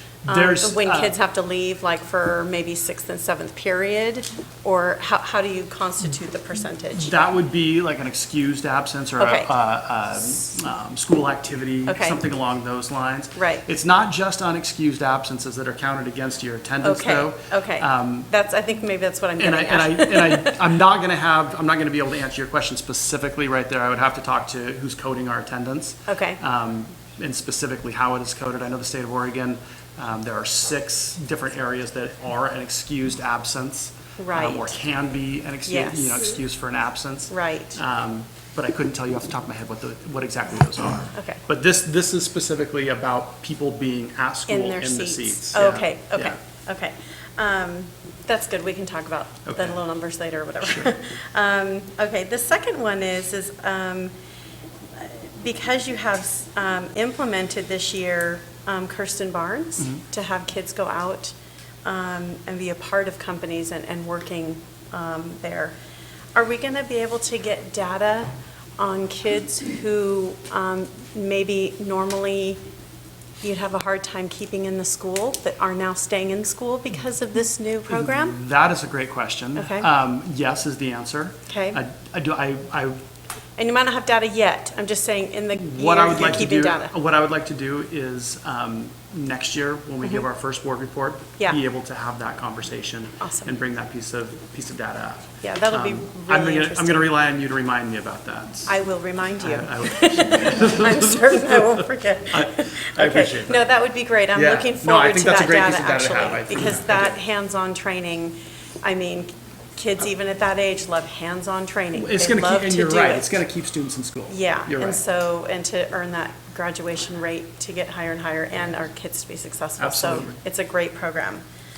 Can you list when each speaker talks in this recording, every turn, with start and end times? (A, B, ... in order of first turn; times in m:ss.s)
0:00.2-0:01.1 A
0:00.3-0:07.2 B
0:07.0-0:18.3 A
0:09.2-0:09.5 B
0:11.8-0:12.2 B
0:13.4-0:13.6 B
0:16.8-0:20.6 B
0:19.4-0:46.4 A
0:26.1-0:26.4 B
0:34.2-0:34.8 B
0:35.6-0:36.2 B
0:37.3-0:37.8 B
0:41.1-0:41.4 B
0:44.5-0:54.1 B
0:49.4-0:49.8 A
0:55.0-1:05.7 B
1:06.3-1:12.6 B
1:13.4-1:18.4 B
1:17.9-1:23.0 A
1:19.6-1:19.9 B
1:21.5-1:21.8 B
1:23.6-1:26.9 B
1:25.6-1:38.7 A
1:33.2-1:33.5 B
1:35.4-1:37.1 B
1:38.7-1:53.3 B
1:39.4-1:43.6 A
1:44.3-1:47.2 A
1:51.9-1:55.0 A
1:54.3-2:01.4 B
1:59.8-2:00.4 A